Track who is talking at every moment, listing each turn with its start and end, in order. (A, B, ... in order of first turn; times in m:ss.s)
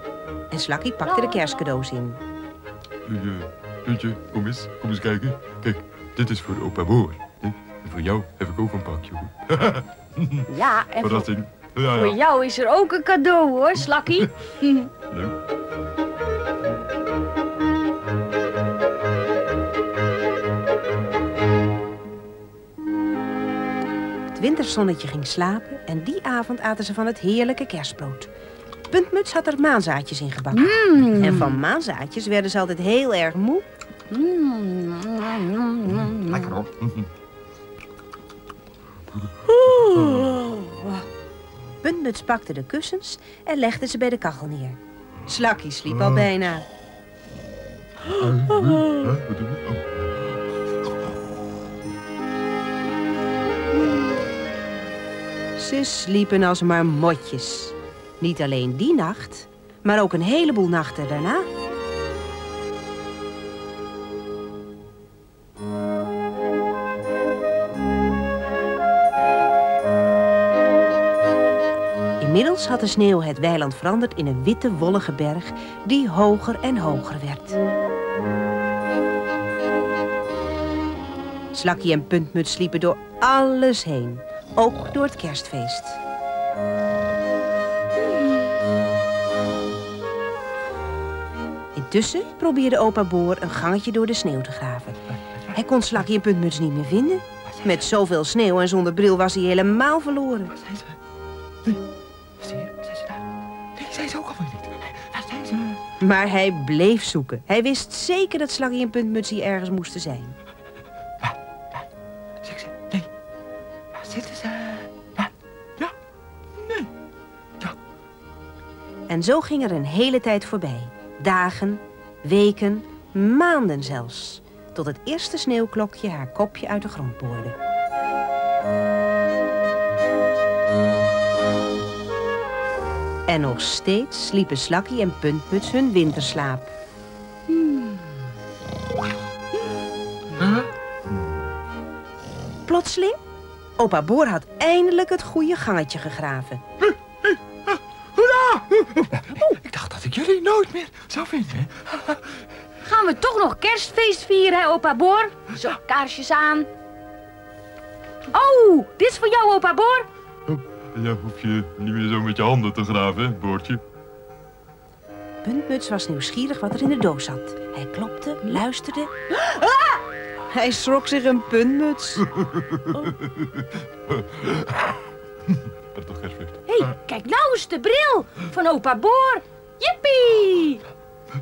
0:00.5-0:02.2 A
0:03.0-0:10.5 B
0:10.5-0:11.3 C
0:11.0-0:12.2 B
0:11.8-0:14.9 C
0:13.9-0:14.3 B
0:15.1-0:15.4 B
0:24.3-0:28.3 A
0:28.9-0:33.7 A
0:30.5-0:31.6 C
0:34.1-0:36.7 C
0:36.5-0:37.1 B
0:39.6-0:41.0 C
0:40.0-0:40.2 B
0:41.8-0:46.7 A
0:45.9-0:46.3 B
0:48.1-0:49.9 B
0:55.6-1:01.5 A
1:12.2-1:17.6 A
1:21.5-1:26.0 A
1:31.8-1:40.6 A
1:37.5-1:37.8 B
1:40.6-1:41.0 B
1:42.4-1:43.2 B
1:43.8-1:45.8 B
1:46.0-1:50.4 A
1:52.4-1:53.1 B
1:54.0-1:56.0 B
1:56.6-1:56.9 B
1:59.1-2:07.6 A
2:13.3-2:16.7 A
2:20.4-2:20.7 B
2:22.7-2:23.2 A
2:23.8-2:26.6 A
2:27.2-2:32.4 B
2:32.8-2:36.7 C
2:38.3-2:40.1 C
2:40.5-2:43.8 B
2:45.4-2:49.1 A
2:49.5-2:50.0 C
2:50.5-2:52.2 A
2:52.3-2:56.9 B
2:56.7-3:00.8 C